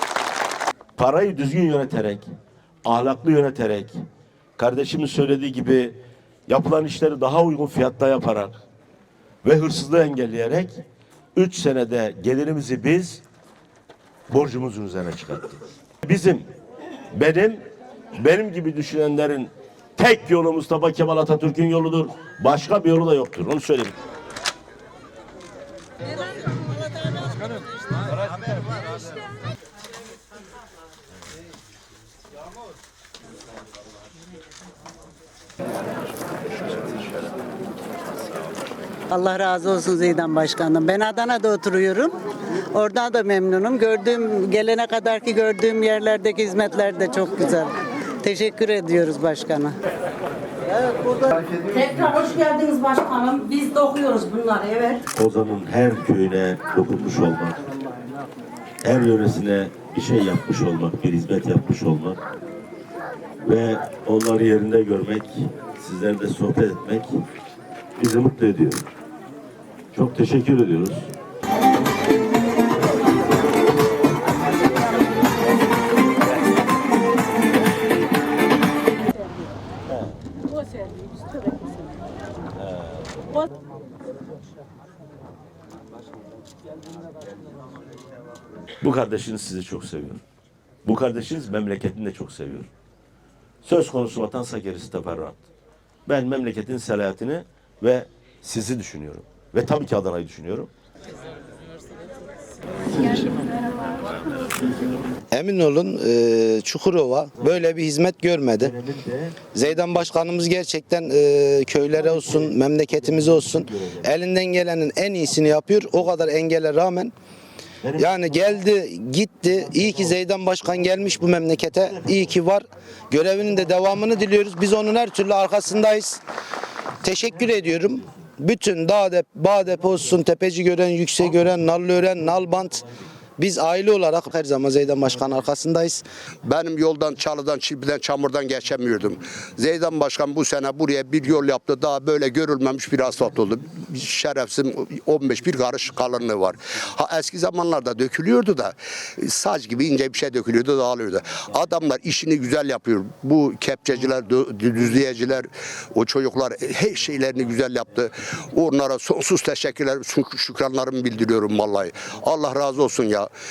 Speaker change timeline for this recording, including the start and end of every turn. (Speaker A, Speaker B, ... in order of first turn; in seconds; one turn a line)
Speaker A: 1.0-2.3
Speaker A: 2.8-3.9
Speaker A: 4.6-6.0
Speaker A: 6.5-8.6
Speaker A: 9.4-10.8
Speaker A: 11.3-13.2
Speaker A: 14.3-16.5
Speaker A: 17.1-17.6
Speaker A: 18.2-23.9
Speaker B: 39.1-42.1
Speaker B: 42.7-49.7
Speaker C: 51.6-55.0
Speaker A: 55.1-57.6
Speaker A: 58.8-62.2
Speaker A: 63.4-67.1
Speaker A: 68.0-68.8
Speaker A: 69.9-71.1
Speaker A: 79.9-80.2
Speaker A: 82.6-83.3
Speaker A: 88.8-90.2
Speaker A: 90.8-92.7
Speaker A: 93.6-95.5
Speaker A: 96.1-100.7
Speaker A: 103.0-103.3
Speaker D: 105.3-108.7
Speaker A: 108.6-109.4
Speaker D: 109.5-117.1
Speaker A: 117.8-118.5
Speaker D: 118.0-126.2
Speaker D: 127.0-132.8
Speaker D: 133.4-136.0
Speaker E: 136.4-163.3